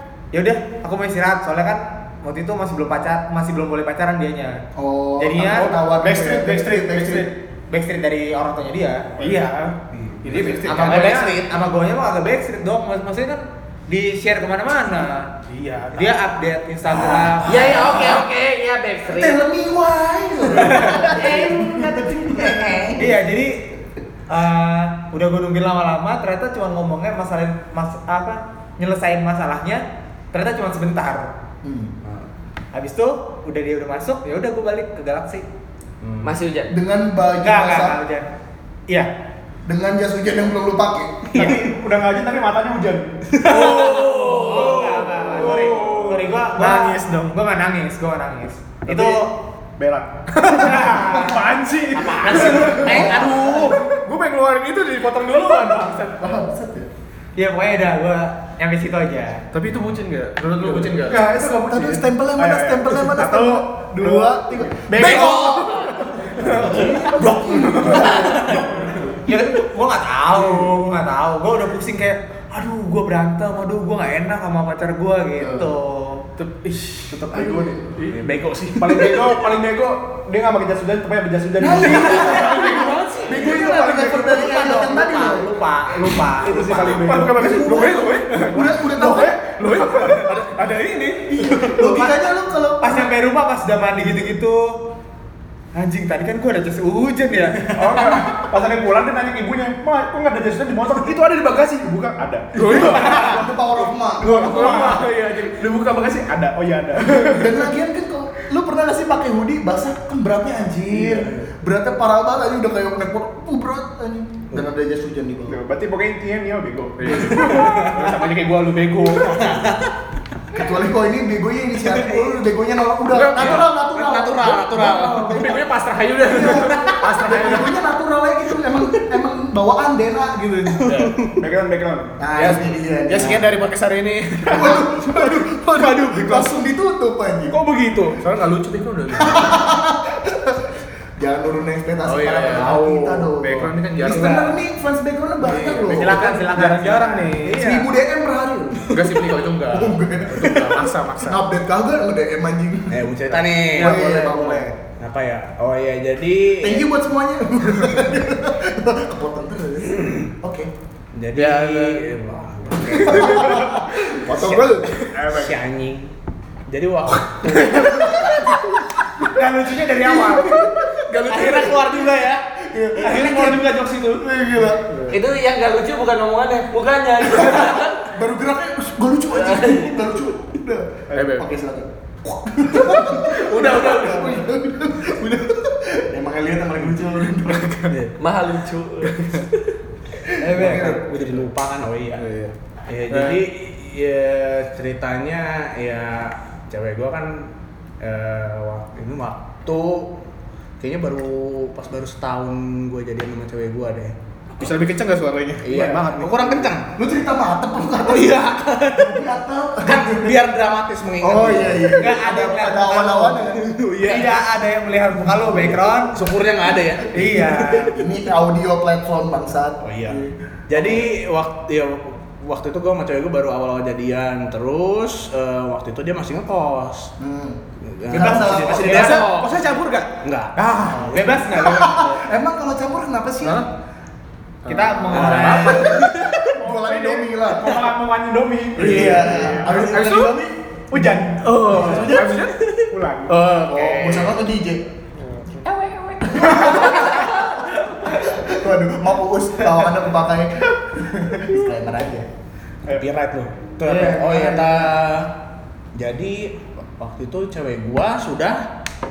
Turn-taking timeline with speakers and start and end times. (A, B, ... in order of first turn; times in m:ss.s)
0:00.3-0:04.6 A
0:04.8-0:07.3 B
0:05.2-0:05.7 A
0:05.8-0:07.3 C
0:07.7-0:09.5 A
0:09.2-0:11.2 C
0:10.2-0:10.7 D
0:10.4-0:15.3 A
0:10.6-0:11.5 E
0:15.5-0:16.1 D
0:15.9-0:18.2 A
0:16.9-0:18.2 B
0:17.4-0:19.4 F
0:19.1-0:23.2 B
0:20.9-0:21.9 F
0:23.0-0:23.6 A
0:24.3-0:31.3 A
0:31.6-0:31.9 B
0:32.7-0:35.4 A
0:36.2-0:36.7 F
0:36.7-0:38.0 B
0:37.4-0:38.3 A
0:39.6-0:41.5 B
0:41.3-0:43.8 C
0:43.3-0:44.4 E
0:43.4-0:44.8 F
0:43.4-0:49.3 A
0:44.3-0:44.9 D
0:44.3-0:47.2 C
0:45.5-0:46.0 D
0:48.9-0:49.2 C
0:49.8-0:56.2 C
0:50.5-0:51.5 A
0:51.9-0:53.8 E
0:52.3-0:53.8 B
0:52.4-0:52.8 A
0:55.5-0:56.9 B
0:57.4-0:59.4 A
0:59.5-1:01.3 D
1:00.6-1:09.2 C
1:01.3-1:08.8 B
1:05.0-1:05.8 E
1:08.0-1:08.7 E
1:09.2-1:16.2 A
1:15.4-1:15.7 B
1:16.4-1:17.3 D
1:17.1-1:24.3 C
1:17.3-1:17.8 B
1:18.1-1:18.3 D
1:18.2-1:19.4 E
1:21.6-1:25.5 B
1:22.2-1:23.5 D
1:22.2-1:24.0 E
1:23.9-1:27.2 A
1:26.4-1:31.8 C
1:26.5-1:28.2 D
1:27.3-1:29.5 B
1:29.6-1:31.8 D
1:31.3-1:33.1 B
1:32.8-1:34.8 A
1:35.7-1:38.2 A
1:37.6-1:43.4 C
1:42.6-1:43.4 D
1:42.7-1:45.0 B
1:44.2-1:47.6 C
1:44.3-1:45.5 D
1:47.2-1:55.6 B
1:55.5-1:59.6 C
1:57.0-1:59.6 D
1:57.3-1:58.1 E
1:59.3-1:59.9 E
2:00.5-2:05.6 B
2:01.9-2:02.4 E
2:03.1-2:03.7 D
2:03.4-2:05.6 E
2:05.2-2:07.8 D
2:06.2-2:11.0 B
2:06.5-2:07.0 E
2:10.8-2:11.4 E
2:10.8-2:11.1 D
2:11.4-2:12.2 C
2:12.2-2:13.4 B
2:12.3-2:15.2 D
2:14.5-2:17.6 B
2:15.8-2:16.5 D
2:16.0-2:16.5 E
2:17.5-2:19.6 D
2:19.2-2:26.5 B
2:22.0-2:24.5 D
2:22.5-2:23.3 E
2:25.4-2:27.5 D
2:25.8-2:27.9 A
2:27.4-2:34.7 B
2:28.9-2:31.4 D
2:32.9-2:36.8 E
2:33.7-2:34.3 A
2:36.6-2:40.7 B
2:41.1-2:46.1 E
2:41.3-2:42.1 D
2:42.9-2:45.0 B
2:45.2-2:45.5 C
2:46.7-2:48.5 E
2:47.5-2:48.6 B
2:49.3-2:50.6 A
2:49.9-2:51.6 B
2:51.2-2:51.7 D
2:51.2-2:52.4 E
2:52.7-2:53.7 B
2:53.0-2:53.4 E
2:53.0-2:54.4 D
2:54.3-2:54.8 B
2:55.1-2:58.0 F
2:57.4-3:08.0 B
2:59.3-2:59.9 F
3:01.1-3:01.5 D
3:03.3-3:04.5 D
3:08.2-3:09.3 F
3:10.4-3:11.1 B
3:10.4-3:12.2 E
3:10.6-3:10.9 D
3:12.2-3:12.5 D
3:12.9-3:20.2 E
3:13.1-3:13.4 D
3:20.8-3:24.1 E
3:24.6-3:26.7 D
3:25.6-3:26.8 E
3:26.9-3:30.4 B
3:28.0-3:29.3 E
3:29.8-3:32.0 E
3:31.2-3:33.7 B
3:32.0-3:33.5 A
3:33.6-3:34.3 E
3:34.0-3:36.2 A
3:36.1-3:37.9 E
3:37.1-3:38.0 A
3:37.9-3:41.0 B
3:39.8-3:47.1 E
3:47.2-3:49.2 B
3:47.8-3:49.6 E
3:48.6-3:50.1 D
3:50.2-3:51.9 E
3:50.8-3:52.2 A
3:51.5-3:53.7 B
3:54.6-3:55.7 D
3:54.7-3:56.0 A
3:55.1-3:56.5 E
3:55.1-3:57.9 B
3:56.5-4:00.3 C
3:58.8-4:00.5 B
3:58.8-3:59.9 E
4:00.9-4:03.4 C
4:01.4-4:04.4 E
4:01.7-4:02.5 B
4:03.7-4:04.9 B
4:05.2-4:05.6 C
4:06.2-4:12.3 B
4:06.3-4:07.3 F
4:12.9-4:15.3 E
4:13.8-4:15.0 A
4:15.9-4:18.6 E